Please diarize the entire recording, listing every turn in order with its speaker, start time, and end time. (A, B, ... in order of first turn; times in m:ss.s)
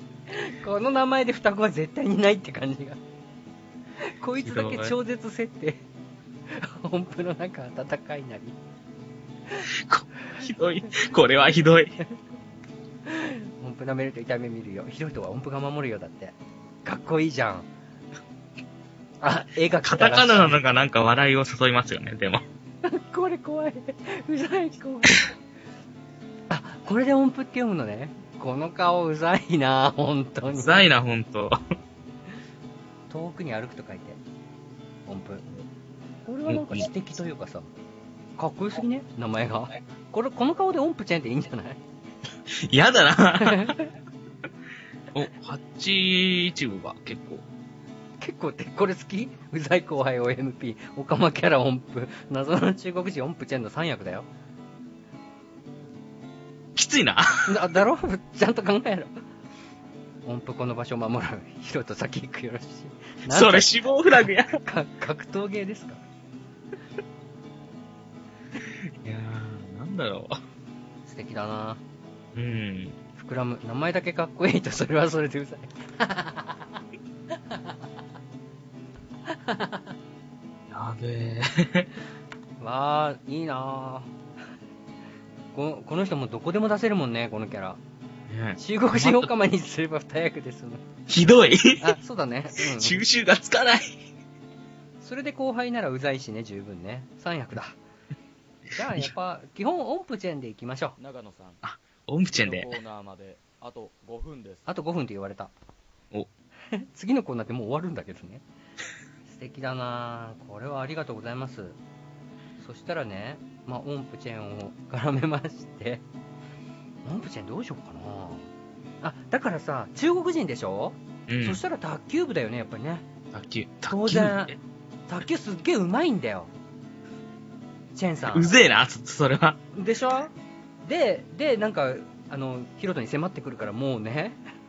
0:00.3-0:03.0 A
0:04.0-0:05.8 A
0:04.4-0:04.9 B
0:06.5-0:08.6 A
0:09.7-0:12.0 B
0:13.1-0:17.7 A
0:19.2-0:20.6 A
0:19.8-0:22.4 B
0:22.8-0:25.3 A
0:26.5-0:30.8 A
0:30.5-0:31.6 B
0:33.1-0:34.2 A
0:35.0-0:35.4 A
0:36.3-0:37.7 A
0:36.5-0:36.9 B
0:38.4-0:41.8 A
0:42.5-0:43.8 B
0:43.4-0:43.9 A
0:45.1-0:47.4 B
0:48.2-0:54.3 A
0:56.8-0:57.6 B
0:57.4-0:59.1 A
1:00.2-1:03.8 A
1:03.3-1:04.6 B
1:04.6-1:06.0 A
1:09.0-1:10.3 B
1:11.0-1:11.8 A
1:12.3-1:13.0 B
1:13.2-1:16.7 A
1:19.3-1:19.9 A
1:20.7-1:21.9 B
1:22.6-1:24.1 A
1:25.5-1:27.8 A
1:28.3-1:29.3 B
1:28.6-1:30.8 A
1:31.1-1:32.0 B
1:31.8-1:33.0 A
1:32.6-1:34.0 B
1:35.0-1:37.7 A
1:38.7-1:41.0 A
1:41.0-1:41.6 C
1:41.6-1:42.8 B
1:42.3-1:44.7 C
1:44.7-1:45.5 A
1:46.7-1:48.4 A
1:49.3-1:51.8 A
1:52.6-1:56.0 A
1:57.0-1:58.5 A
1:59.0-2:03.0 A
2:01.3-2:01.6 B
2:03.3-2:04.6 B
2:03.9-2:04.6 A
2:05.1-2:06.5 A
2:08.0-2:08.5 A
2:08.3-2:09.6 B
2:09.7-2:10.3 A
2:10.8-2:14.4 A